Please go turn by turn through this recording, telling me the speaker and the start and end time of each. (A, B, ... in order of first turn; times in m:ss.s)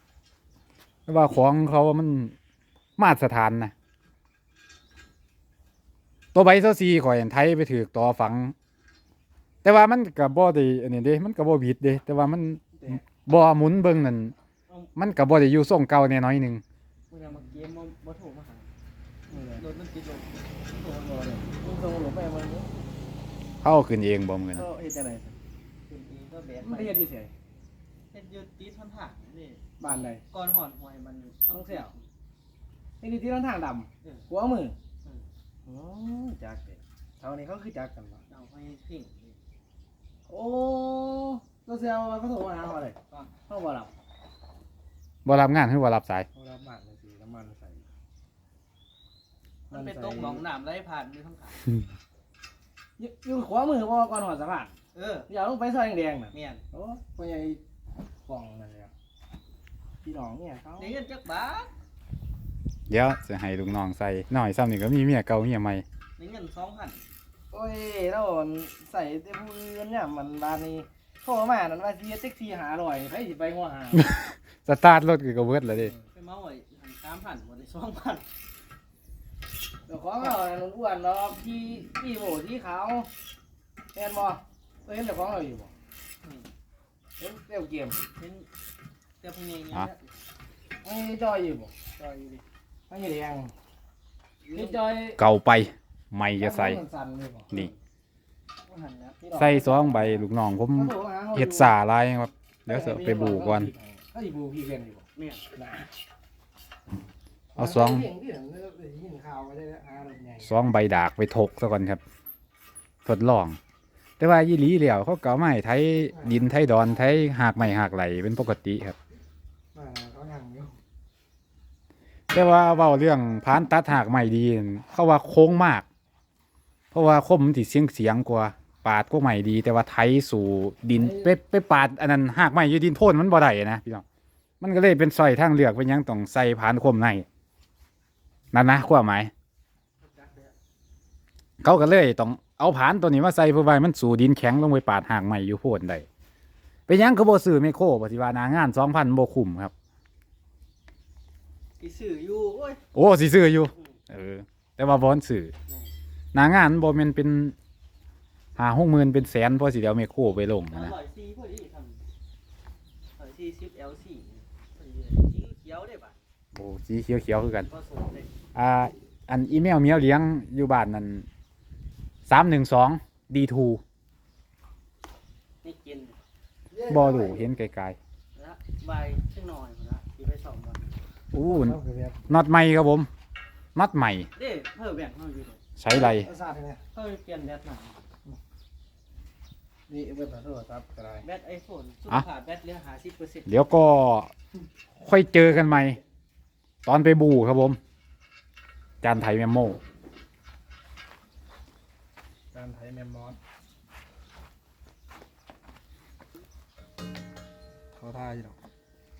0:01.1-0:02.3 A
0:03.0-0:03.7 A
0:06.3-0:08.5 A
0:09.6-0:14.3 A
0:15.0-0:16.6 A
0:17.1-0:18.6 B
0:19.3-0:19.7 C
0:19.3-0:21.4 B
0:21.4-0:22.7 C
0:23.6-0:24.6 A
0:24.5-0:25.4 C
0:25.9-0:27.0 B
0:26.6-0:27.3 C
0:28.1-0:32.0 B
0:29.8-0:30.2 C
0:31.5-0:31.9 C
0:33.0-0:34.8 C
0:35.6-0:38.2 C
0:38.3-0:39.4 B
0:40.3-0:43.9 C
0:43.1-0:43.4 B
0:45.2-0:46.3 A
0:46.3-0:47.9 C
0:49.7-0:51.6 B
0:49.7-0:50.4 C
0:53.0-0:54.7 C
0:54.9-0:55.3 B
0:55.3-0:57.6 C
0:56.3-0:56.6 B
0:58.2-0:58.9 C
1:00.0-1:01.0 C
1:00.8-1:01.7 B
1:02.9-1:05.8 A
1:06.2-1:07.0 B
1:07.5-1:14.1 C
1:13.9-1:15.9 A
1:16.1-1:18.2 B
1:19.8-1:23.1 C
1:23.9-1:25.7 C
1:26.2-1:26.5 B
1:27.2-1:28.0 C
1:28.2-1:28.5 B
1:29.2-1:30.2 B
1:30.8-1:31.8 C
1:32.0-1:32.4 B
1:32.9-1:33.5 C
1:34.4-1:34.8 B
1:34.5-1:35.2 C
1:35.2-1:36.8 A
1:36.4-1:37.5 C
1:38.6-1:39.2 B
1:39.2-1:41.7 C
1:39.4-1:43.7 A
1:42.7-1:45.9 C
1:45.2-1:45.5 B
1:47.5-1:50.5 C
1:47.6-1:48.1 A
1:50.4-1:52.0 A
1:53.0-1:53.6 A
1:54.2-1:59.0 A
1:56.1-1:56.6 C
1:59.7-2:00.7 C
2:02.3-2:05.8 A
2:06.9-2:14.0 A
2:10.9-2:11.3 C
2:14.6-2:17.2 A
2:18.5-2:19.3 A
2:20.0-2:20.5 B
2:21.6-2:26.0 A
2:26.9-2:29.7 A
2:31.8-2:32.8 B
2:32.9-2:35.5 A
2:36.3-2:37.5 A
2:38.6-2:40.9 A
2:40.7-2:42.0 B
2:43.2-2:46.2 B
2:46.5-2:47.7 A
2:47.7-2:48.3 B
2:48.5-2:51.3 A
2:52.3-2:53.8 A
2:55.6-2:56.1 B
2:56.7-2:57.4 C
2:56.9-2:58.0 A
2:58.3-3:01.0 B
3:01.3-3:01.8 A
3:01.4-3:02.2 C
3:02.3-3:03.1 A
3:03.7-3:04.3 A
3:04.4-3:05.6 B
3:05.8-3:06.3 A
3:05.9-3:06.8 C
3:06.9-3:08.0 B
3:09.9-3:11.3 C
3:11.2-3:13.5 B
3:13.4-3:14.3 A
3:15.0-3:16.0 A
3:16.8-3:17.8 A
3:19.0-3:19.8 A
3:22.5-3:23.4 C
3:27.9-3:28.6 C